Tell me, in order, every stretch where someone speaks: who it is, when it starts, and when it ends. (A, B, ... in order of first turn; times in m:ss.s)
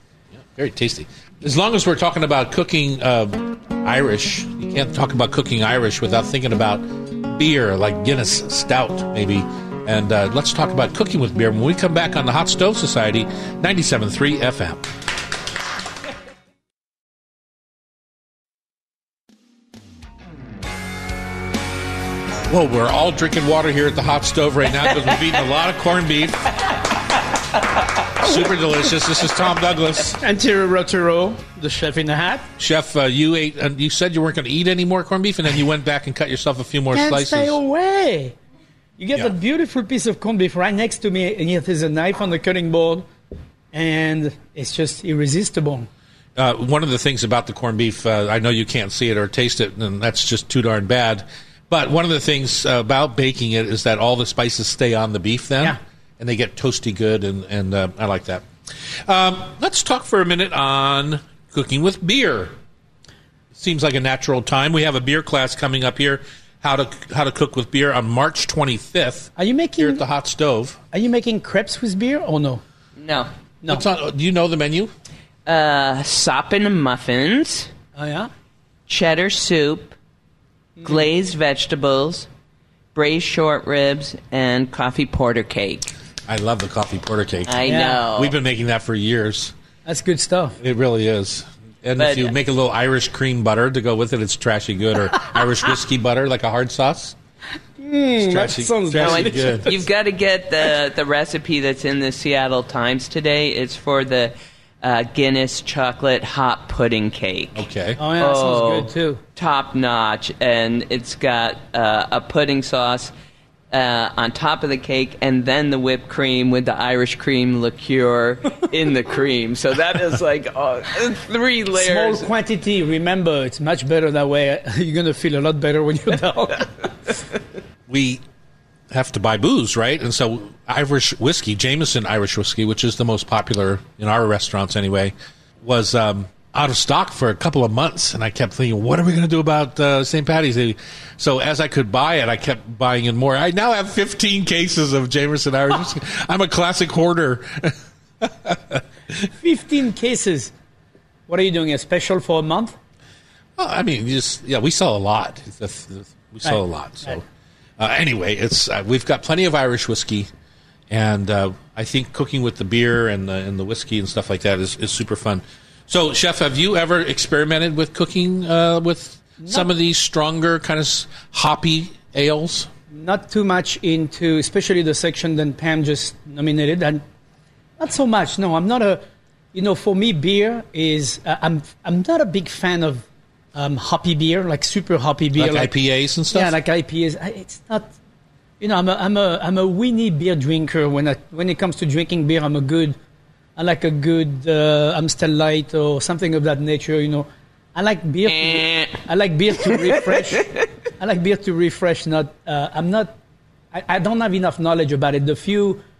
0:00.3-0:14.9 A
0:22.5-0:26.6 A
0:28.2-0:30.2 A
0:30.2-0:32.4 B
0:32.6-0:37.6 A
0:36.9-0:38.4 B
0:39.0-0:43.1 B
0:43.7-0:45.9 B
0:46.4-1:02.5 A
1:03.5-1:10.8 A
1:09.4-1:10.0 B
1:10.9-1:12.6 B
1:13.0-1:13.3 C
1:13.7-1:14.9 A
1:15.4-1:17.7 C
1:17.9-1:18.3 B
1:18.9-1:20.0 C
1:20.8-1:22.3 C
1:22.9-1:25.9 C
1:26.3-1:29.5 A
1:27.5-1:28.3 C
1:27.6-1:28.0 B
1:29.8-1:30.6 B
1:30.6-1:37.2 A
1:32.0-1:32.3 C
1:37.8-1:39.7 B
1:38.2-1:39.7 A
1:39.0-1:47.6 C
1:47.5-1:48.0 A
1:48.0-1:49.2 B
1:48.2-1:53.1 C
1:53.7-2:02.3 C
2:01.8-2:06.7 B
2:07.9-2:08.2 A
2:08.9-2:29.3 A
2:29.4-2:30.5 B
2:31.3-2:32.8 B
2:33.6-2:37.2 A
2:36.4-2:37.2 B
2:37.8-2:40.3 A
2:40.9-2:52.7 A
2:49.4-2:49.7 B
2:52.9-2:57.0 B
2:57.8-2:59.0 B
2:59.5-3:05.7 B
3:05.4-3:06.5 A
3:06.3-3:07.9 B
3:08.6-3:13.0 B
3:13.6-3:20.5 B
3:18.2-3:19.0 C
3:19.7-3:20.6 C
3:21.0-3:23.1 B
3:23.7-3:25.8 B